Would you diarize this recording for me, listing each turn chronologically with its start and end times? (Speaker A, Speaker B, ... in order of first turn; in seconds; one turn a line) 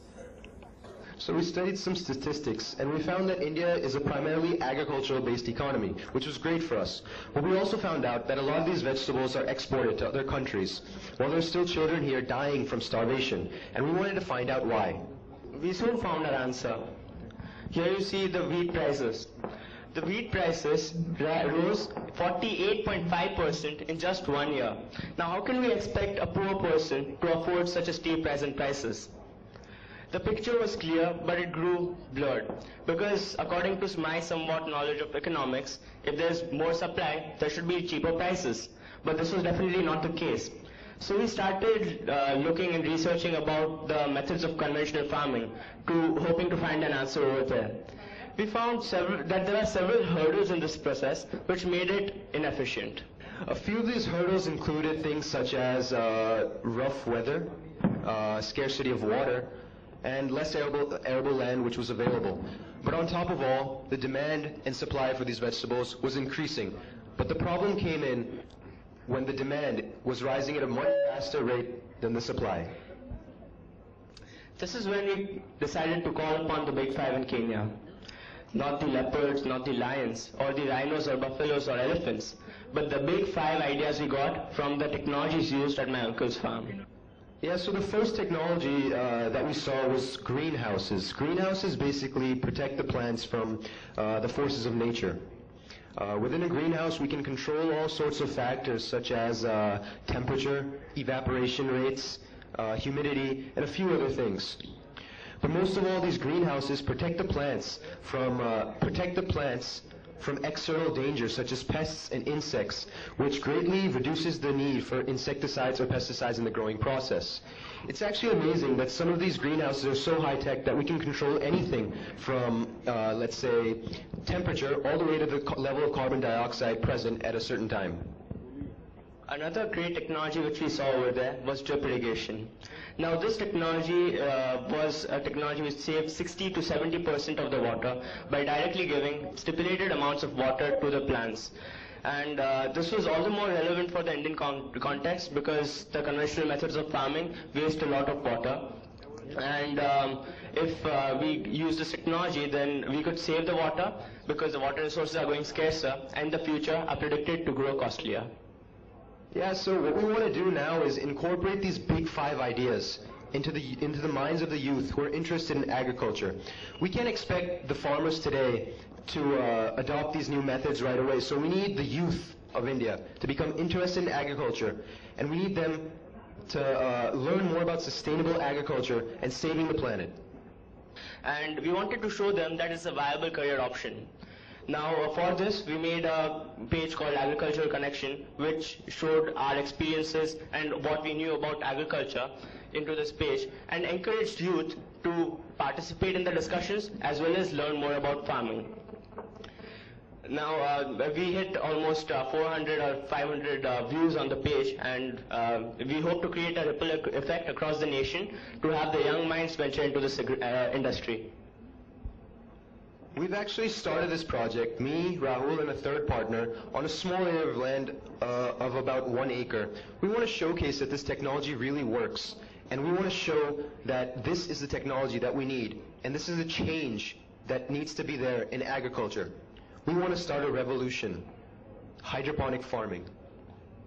Speaker A: 1.2-15.0
Speaker B: 15.5-16.9
Speaker B: 17.7-19.3
Speaker B: 19.9-29.1
Speaker B: 30.1-53.0
Speaker A: 53.4-68.4
Speaker A: 69.1-72.7
Speaker B: 74.6-77.8
Speaker B: 78.5-86.8
Speaker A: 87.4-95.2
Speaker A: 96.0-104.6
Speaker A: 105.4-128.0
Speaker B: 129.3-141.5
Speaker B: 142.0-148.8
Speaker B: 149.3-158.3
Speaker A: 159.3-175.9
Speaker A: 176.5-180.1
Speaker B: 181.2-184.1
Speaker B: 184.7-198.8
Speaker B: 200.2-211.3
Speaker A: 213.1-229.3
Speaker A: 229.8-231.2
Speaker A: 232.0-233.1